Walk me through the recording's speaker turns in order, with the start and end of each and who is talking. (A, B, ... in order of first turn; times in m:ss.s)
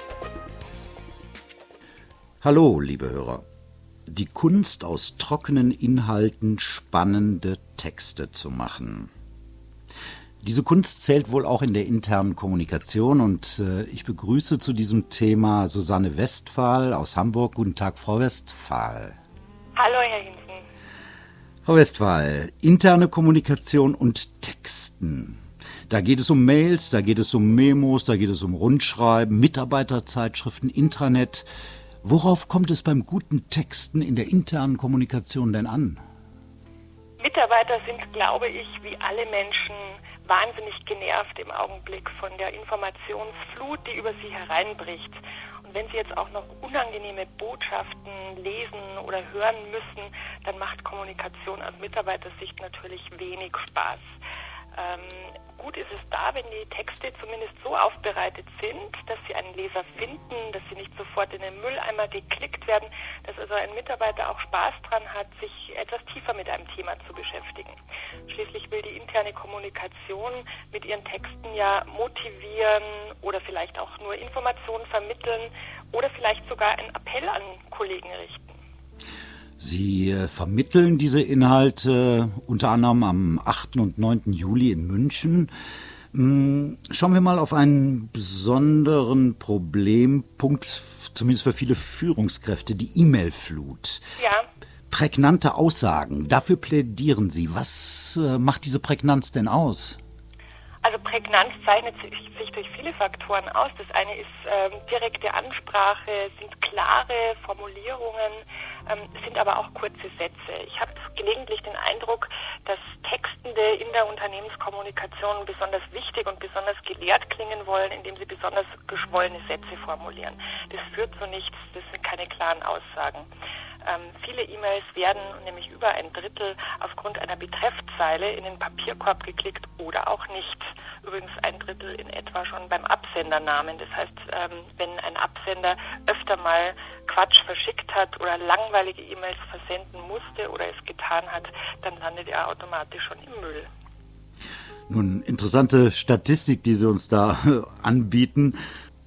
0:02.4-0:03.4 A
0:04.1-0:09.1 A
0:10.4-0:19.2 A
0:19.8-0:20.6 B
0:21.7-0:31.5 A
0:32.0-0:36.0 A
0:37.2-0:54.2 B
0:54.7-1:18.6 B
1:19.6-1:25.5 A
1:26.1-1:34.0 A
1:34.2-1:34.5 B
1:34.9-1:40.0 A
1:40.8-2:03.3 B
2:03.8-2:23.7 B
2:24.9-2:28.6 A